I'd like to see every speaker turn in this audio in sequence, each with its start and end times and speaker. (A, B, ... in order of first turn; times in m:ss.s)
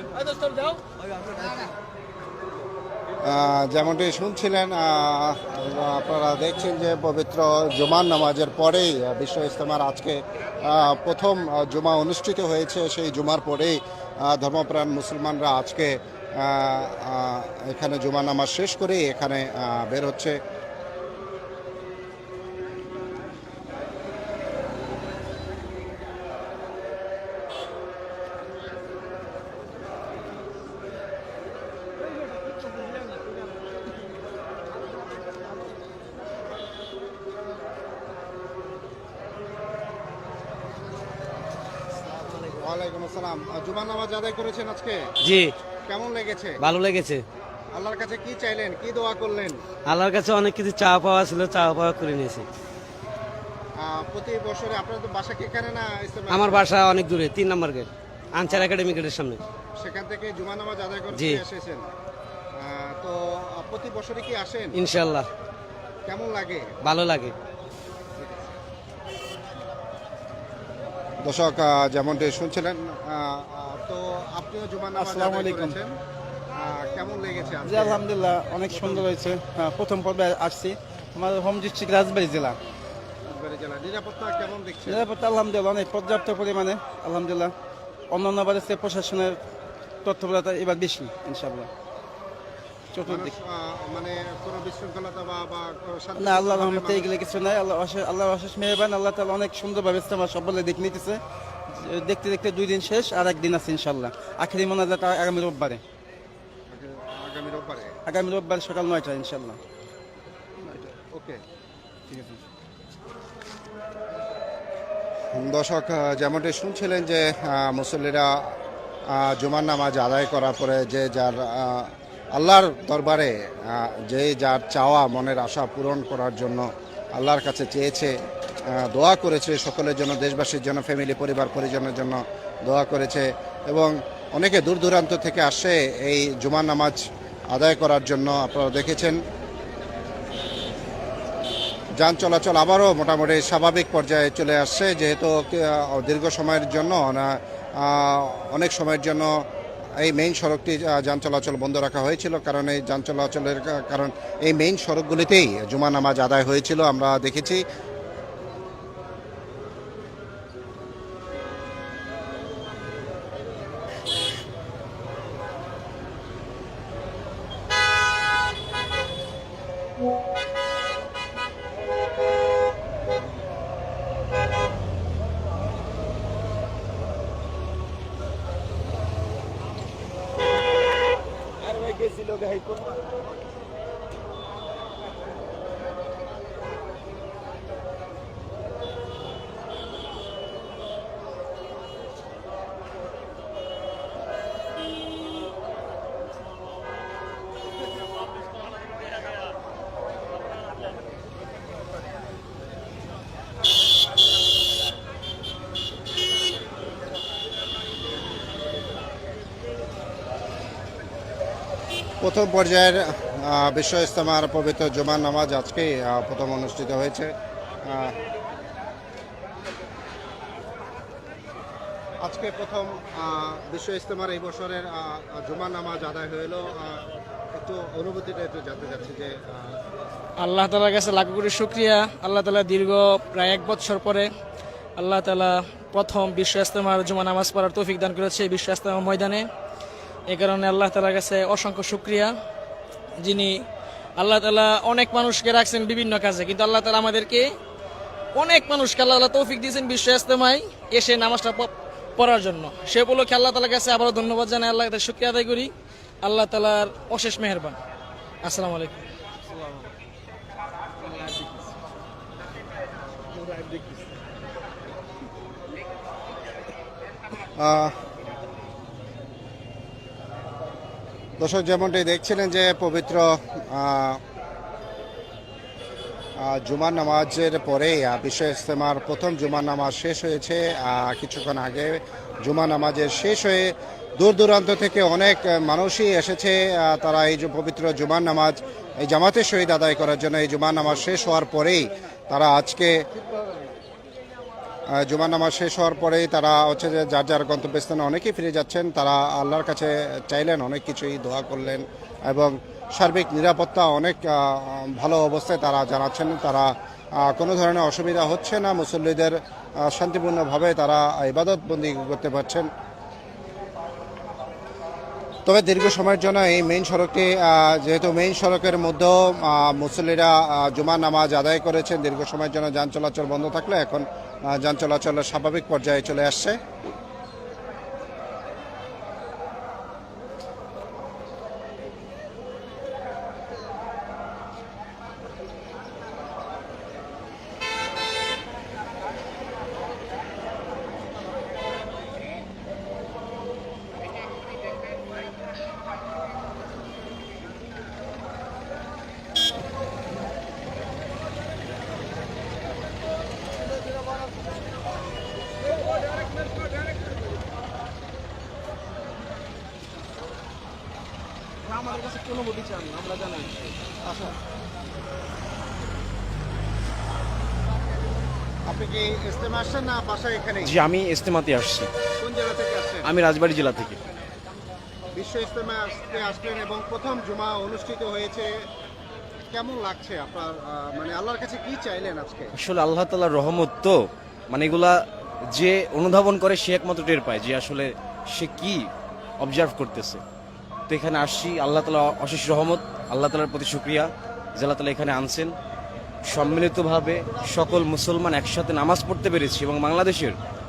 0:03.2-0:20.4 A
0:42.4-0:45.0 A
0:45.2-0:45.5 B
0:45.9-0:46.6 A
0:46.6-0:47.2 B
0:47.8-0:49.6 A
0:49.9-0:52.4 B
0:53.8-0:56.7 A
0:56.3-0:59.4 B
0:59.8-1:01.9 A
1:01.1-1:01.4 B
1:02.6-1:04.8 A
1:04.8-1:05.3 B
1:06.1-1:06.7 A
1:06.8-1:07.3 B
1:08.2-1:08.6 A
1:11.2-1:16.0 A
1:15.0-1:15.8 C
1:16.5-1:18.0 A
1:17.6-1:22.6 C
1:18.7-1:19.1 A
1:23.3-1:25.0 A
1:24.9-1:27.5 C
1:28.1-1:29.4 C
1:30.0-1:31.7 C
1:33.0-1:33.3 C
1:33.1-1:37.1 A
1:36.2-1:41.2 C
1:41.7-1:45.8 C
1:46.7-1:48.0 A
1:48.1-1:49.6 C
1:50.6-1:51.4 A
1:52.1-1:52.4 C
1:55.3-2:19.2 A
2:22.0-2:29.4 A
2:30.0-2:37.6 A
3:32.2-3:38.2 A
3:42.2-3:49.8 A
3:50.4-3:54.3 D
3:55.0-3:59.5 D
4:00.3-4:02.3 D
4:03.2-4:03.6 D
4:04.2-4:07.5 D
4:08.4-4:15.7 D
4:16.2-4:17.8 D
4:18.4-4:19.1 D
4:27.6-4:28.0 A
4:31.4-4:34.2 A
4:36.4-4:53.0 A
4:54.9-5:12.7 A
5:15.5-5:26.6 A
6:01.7-6:03.6 C
6:04.0-6:04.4 A
6:08.7-6:10.7 A
6:10.6-6:11.9 E
6:12.2-6:13.1 A
6:13.0-6:14.0 E
6:15.1-6:18.6 A
6:19.5-6:22.5 A
6:22.6-6:25.0 E
6:25.5-6:28.9 E
6:29.4-6:30.2 E
6:30.9-6:35.5 E
6:36.3-6:40.4 E